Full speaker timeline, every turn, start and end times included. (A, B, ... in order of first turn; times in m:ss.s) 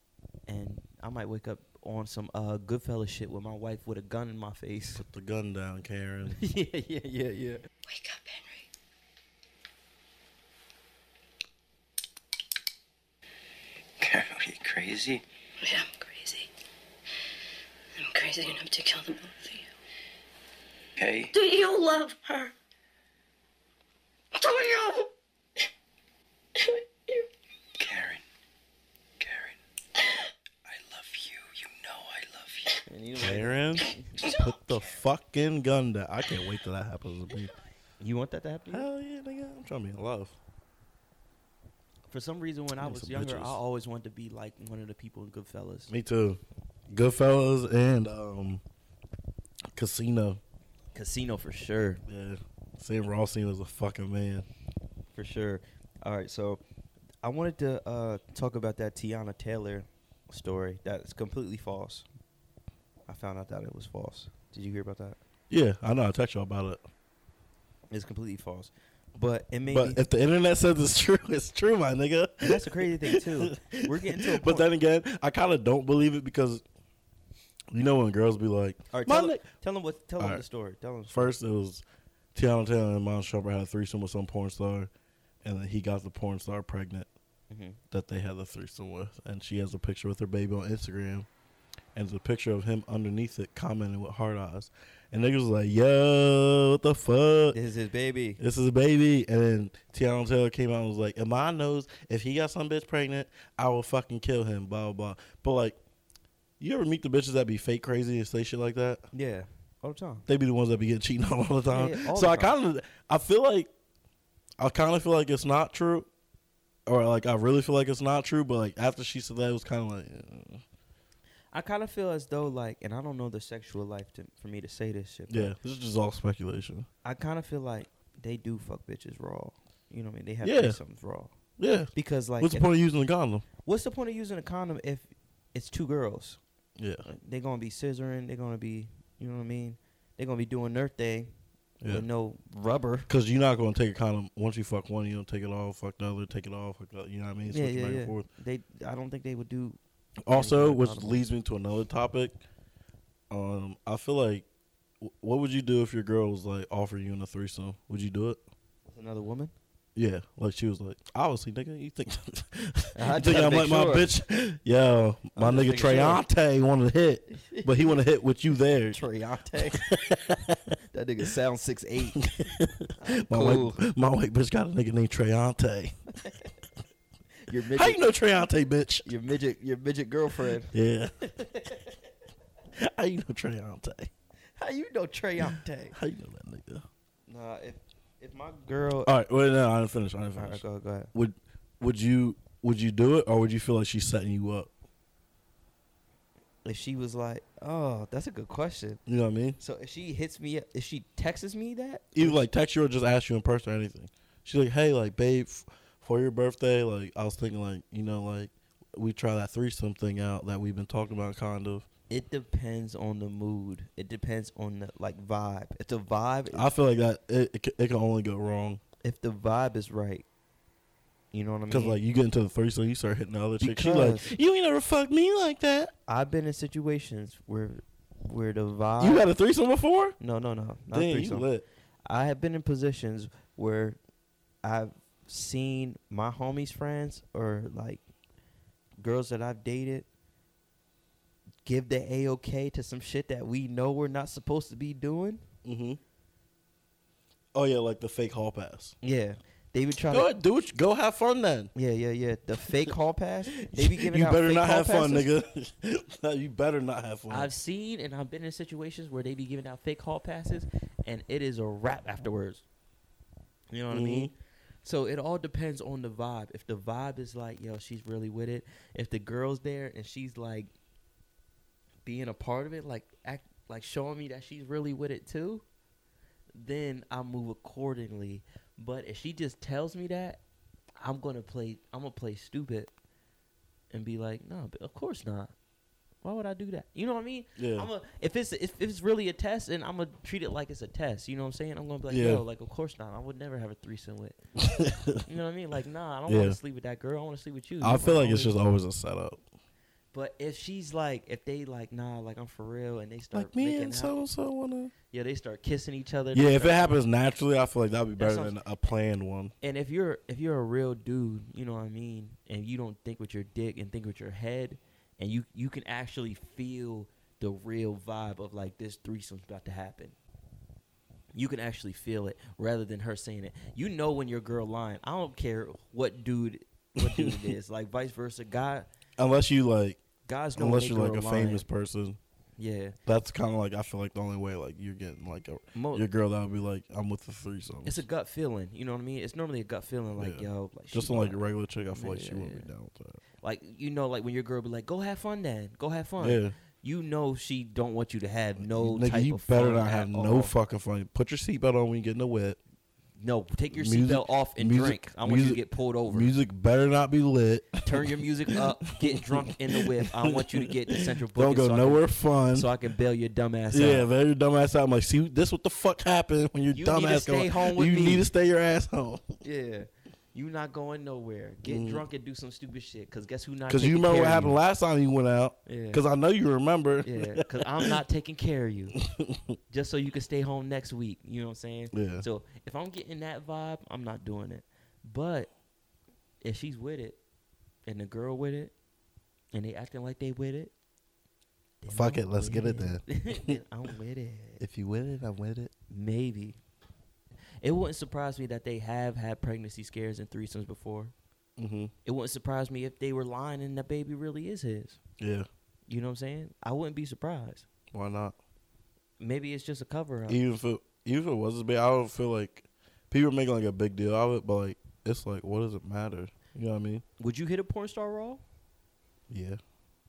0:00.5-0:05.0 A
0:04.9-0:06.4 B
0:06.3-0:07.6 A
0:07.8-0:08.7 C
0:14.0-0:15.2 D
0:15.6-0:16.5 C
0:18.0-0:19.7 C
0:21.0-0:21.3 D
0:21.3-0:22.5 C
0:24.3-0:25.1 C
0:26.6-0:27.3 C
0:27.8-0:28.2 D
0:29.2-0:29.6 D
0:30.6-0:32.8 D
0:32.9-0:34.2 A
0:33.2-0:37.5 B
0:38.0-0:38.9 A
0:38.7-0:40.4 B
0:42.1-0:45.9 A
0:42.8-0:43.6 B
0:45.9-0:48.6 B
0:49.7-0:50.4 B
0:50.9-0:52.0 A
0:52.1-0:54.5 B
0:55.1-0:56.6 A
0:57.2-1:02.0 A
1:03.1-1:05.2 A
1:05.5-1:06.8 B
1:07.9-1:10.0 A
1:09.7-1:16.6 B
1:12.4-1:14.7 A
1:17.7-1:19.4 B
1:18.9-1:21.3 A
1:20.2-1:20.4 B
1:21.1-1:21.8 B
1:22.3-1:24.9 B
1:25.4-1:27.1 B
1:27.5-1:27.8 A
1:27.9-1:31.3 B
1:32.0-1:37.6 B
1:37.5-1:38.4 A
1:38.4-1:45.8 B
1:46.6-1:49.0 B
1:49.1-1:50.2 A
1:50.3-1:53.7 B
1:51.7-1:52.5 A
1:54.6-1:56.1 B
1:56.9-2:00.6 B
2:01.5-2:05.5 A
2:05.3-2:06.9 B
2:07.0-2:11.3 A
2:10.4-2:10.8 B
2:11.6-2:13.4 B
2:11.9-2:12.7 A
2:13.6-2:16.4 A
2:16.8-2:17.0 B
2:17.0-2:21.3 A
2:21.8-2:23.1 A
2:23.1-2:28.2 B
2:27.5-2:29.8 A
2:30.2-2:32.4 B
2:30.3-2:31.2 A
2:33.3-2:34.4 B
2:35.0-2:38.4 B
2:38.9-2:39.5 A
2:39.9-2:49.0 B
2:42.9-2:44.1 A
2:45.4-2:46.2 A
2:47.5-2:48.0 A
2:48.9-2:49.8 A
2:49.7-2:50.6 B
2:50.9-2:52.2 A
2:52.2-2:55.9 B
2:53.0-2:53.8 A
2:57.5-2:58.0 A
2:57.7-2:59.1 B
2:59.0-3:01.9 A
3:00.7-3:01.1 B
3:02.8-3:04.1 B
3:04.6-3:05.9 A
3:05.4-3:06.8 B
3:07.3-3:09.1 A
3:09.0-3:10.6 B
3:10.4-3:11.1 A
3:11.1-3:14.7 B
3:16.6-3:19.0 A
3:19.1-3:19.6 B
3:19.6-3:22.4 A
3:22.1-3:31.8 B
3:32.1-3:36.7 A
3:36.5-3:38.8 B
3:39.0-3:40.2 A
3:41.3-3:42.0 A
3:41.7-3:45.9 B
3:43.6-3:44.3 A
3:46.1-3:49.2 A
3:49.0-3:50.2 B
3:50.2-3:51.5 A
3:50.9-3:51.6 B
3:52.0-3:54.0 A
3:54.6-3:58.0 A
3:59.0-4:00.1 A
4:01.6-4:05.4 A
4:05.6-4:06.0 B
4:07.5-4:08.9 B
4:09.0-4:10.3 A
4:10.1-4:11.7 B
4:11.7-4:15.3 A
4:13.6-4:17.5 B
4:17.3-4:22.6 A
4:23.7-4:30.7 A
4:23.9-4:24.3 B
4:32.0-4:35.6 A
4:36.5-4:40.4 A
4:41.0-4:42.9 A
4:43.9-4:45.5 A
4:46.2-4:54.4 A
4:47.6-4:47.9 B
4:52.1-4:52.4 B
4:54.6-4:55.2 B
4:55.2-4:58.5 A
4:56.3-4:56.6 B
4:57.8-4:59.4 B
5:00.1-5:04.1 A
5:03.3-5:04.9 B
5:05.1-5:07.0 A
5:06.3-5:09.5 B
5:08.2-5:08.5 A
5:09.6-5:20.2 A
5:21.3-5:28.9 A
5:27.0-5:27.4 B
5:29.2-5:30.0 B
5:30.2-5:31.6 A
5:30.6-5:32.2 B
5:32.6-5:33.0 A
5:33.0-5:38.0 B
5:35.7-5:36.0 A
5:37.8-5:41.4 A
5:40.2-5:43.2 B
5:41.9-5:42.7 A
5:43.4-5:50.5 A
5:46.2-5:46.5 B
5:48.6-5:52.6 B
5:53.2-5:56.3 A
5:53.7-5:55.6 B
5:56.1-6:02.7 B
5:57.8-6:04.1 A
6:03.7-6:09.2 B
6:06.7-6:08.3 A
6:09.4-6:14.6 A
6:11.7-6:12.0 B
6:13.7-6:17.9 B
6:15.6-6:16.0 A
6:17.0-6:19.0 A
6:19.7-6:25.5 A
6:21.9-6:22.2 B
6:26.4-6:27.2 A
6:27.8-6:28.7 A
6:29.5-6:30.7 A
6:31.8-6:34.6 A
6:31.9-6:33.6 B
6:34.6-6:35.7 B
6:35.9-6:36.6 A
6:37.6-6:41.1 A
6:41.6-6:41.9 B
6:42.0-6:45.0 A
6:45.2-6:45.5 B
6:45.9-6:47.6 A
6:47.9-6:48.4 B
6:49.2-6:50.4 A
6:50.3-6:57.0 B
6:57.2-6:58.4 A
6:59.3-6:59.6 B